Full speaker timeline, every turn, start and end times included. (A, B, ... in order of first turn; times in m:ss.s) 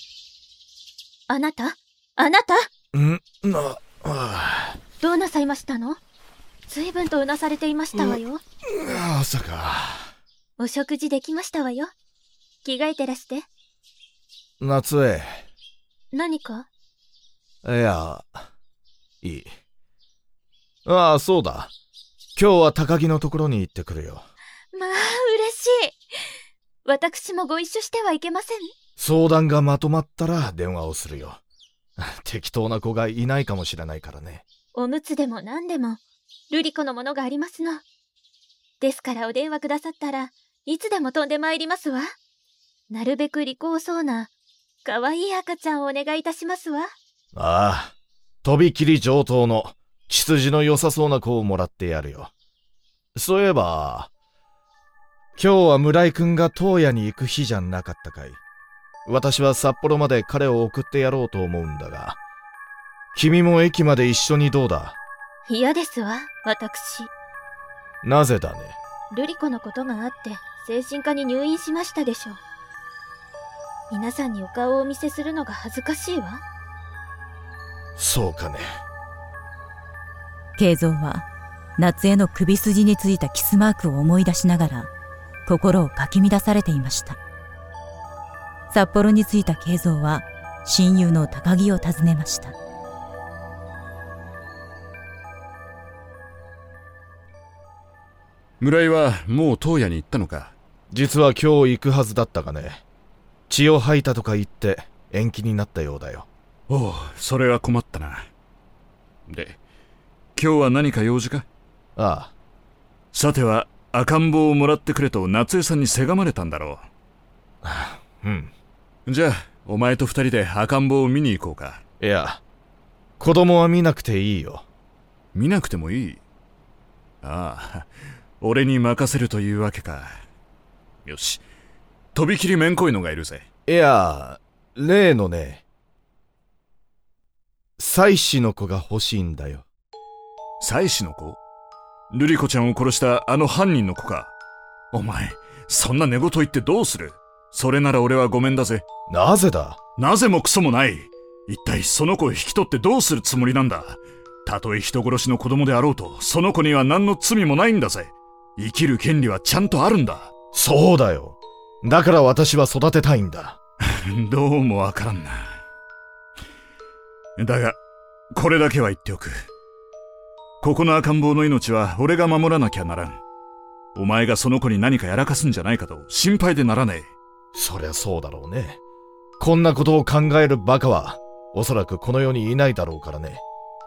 0:01.3-0:02.6 A
0:02.9-0:04.8 B
0:05.0-0:06.0 A
0:06.7-0:08.4 A
0:07.9-0:10.1 B
0:10.6-0:11.9 A
0:12.6-0:13.4 A
0:14.6-0:15.4 B
0:16.1-0:16.7 A
0:17.6-0:18.5 B
0:19.2-0:19.5 B
0:20.8-0:21.7 B
0:22.4-0:24.2 B
0:24.7-0:26.0 A
0:26.8-0:28.7 A
0:29.0-0:31.4 B
0:32.0-0:34.4 B
0:34.7-0:37.8 A
0:38.8-0:42.1 A
0:42.9-0:44.3 A
0:44.8-0:46.9 A
0:47.3-0:52.3 B
0:53.1-0:54.1 B
0:55.4-0:58.4 B
0:59.0-1:02.2 B
1:03.1-1:05.0 B
1:05.5-1:07.1 A
1:08.0-1:08.8 B
1:09.1-1:12.4 A
1:13.9-1:16.4 A
1:18.0-1:18.6 B
1:20.6-1:24.9 C
1:25.4-1:27.2 C
1:28.7-1:32.5 C
1:38.6-1:40.6 D
1:40.9-1:42.8 B
1:43.5-1:46.3 B
1:46.7-1:48.3 D
1:49.3-1:49.6 D
1:50.4-1:51.5 D
1:52.0-1:52.3 B
1:53.1-1:56.8 D
1:57.6-1:58.5 B
1:59.0-2:01.8 D
2:02.0-2:02.4 B
2:03.2-2:04.6 B
2:05.3-2:06.2 D
2:07.2-2:07.9 D
2:08.4-2:10.2 D
2:11.0-2:11.4 D
2:12.1-2:13.4 D
2:13.7-2:15.6 B
2:17.8-2:19.6 B
2:20.6-2:21.4 D
2:22.1-2:24.3 D
2:24.9-2:28.8 D
2:29.1-2:29.8 B
2:30.0-2:40.3 D
2:40.5-2:43.6 B
2:43.8-2:45.6 D
2:47.4-2:47.8 D
2:48.3-2:49.3 D
2:50.6-2:53.2 D
2:53.9-2:57.1 D
2:57.5-2:58.8 B
2:59.4-3:03.4 B